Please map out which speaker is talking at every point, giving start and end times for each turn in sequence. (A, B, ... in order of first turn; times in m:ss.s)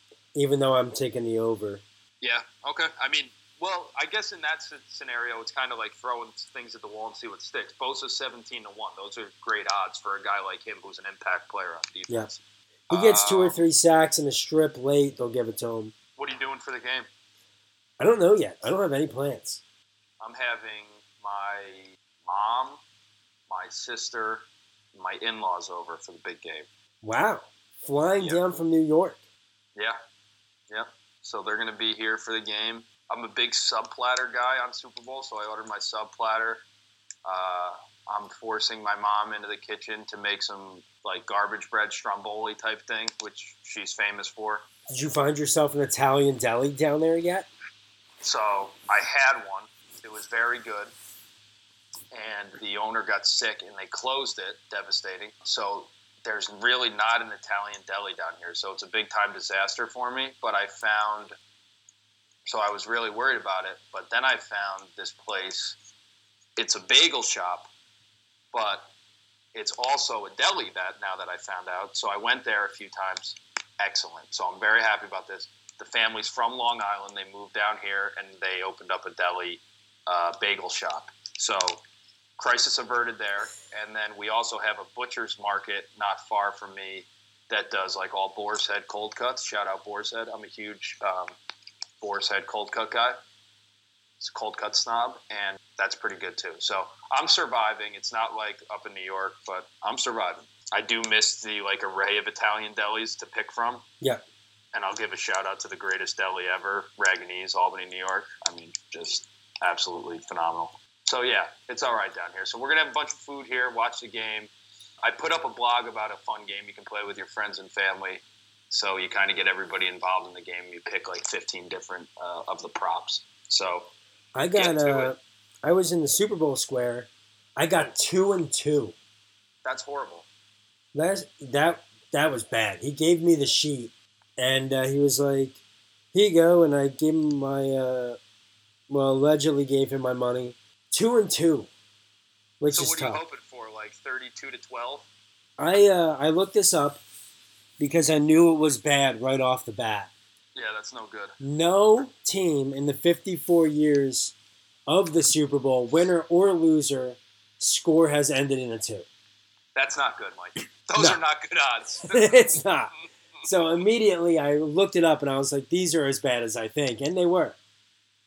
0:00.4-0:01.8 A
0:02.2-0:13.6 B
0:12.9-0:15.9 A
0:16.2-0:17.1 B
0:18.0-0:19.6 A
0:20.2-0:22.8 B
0:23.5-0:26.7 B
0:27.0-0:29.2 A
0:30.7-0:36.6 B
0:37.2-0:44.7 B
0:44.9-0:47.5 A
0:48.2-0:50.9 B
0:52.1-1:01.3 B
1:02.5-1:05.8 B
1:06.6-1:07.7 B
1:08.5-1:08.9 B
1:09.6-1:21.8 B
1:22.4-1:31.3 B
1:32.0-1:33.2 B
1:34.2-1:43.9 B
1:44.7-1:54.5 B
1:55.0-2:03.9 B
2:04.4-2:09.0 A
2:04.6-2:05.1 B
2:09.6-2:10.3 B
2:10.9-2:15.6 A
2:16.1-2:18.2 A
2:18.9-2:21.7 A
2:22.6-2:23.2 A
2:22.7-2:25.1 B
2:25.6-2:27.0 A
2:27.8-2:30.1 A
2:30.6-2:31.4 B
2:31.4-2:34.3 A
2:34.9-2:39.1 A
2:39.8-2:42.3 B
2:42.1-2:42.9 A
2:43.4-2:43.8 B
2:43.4-2:47.6 A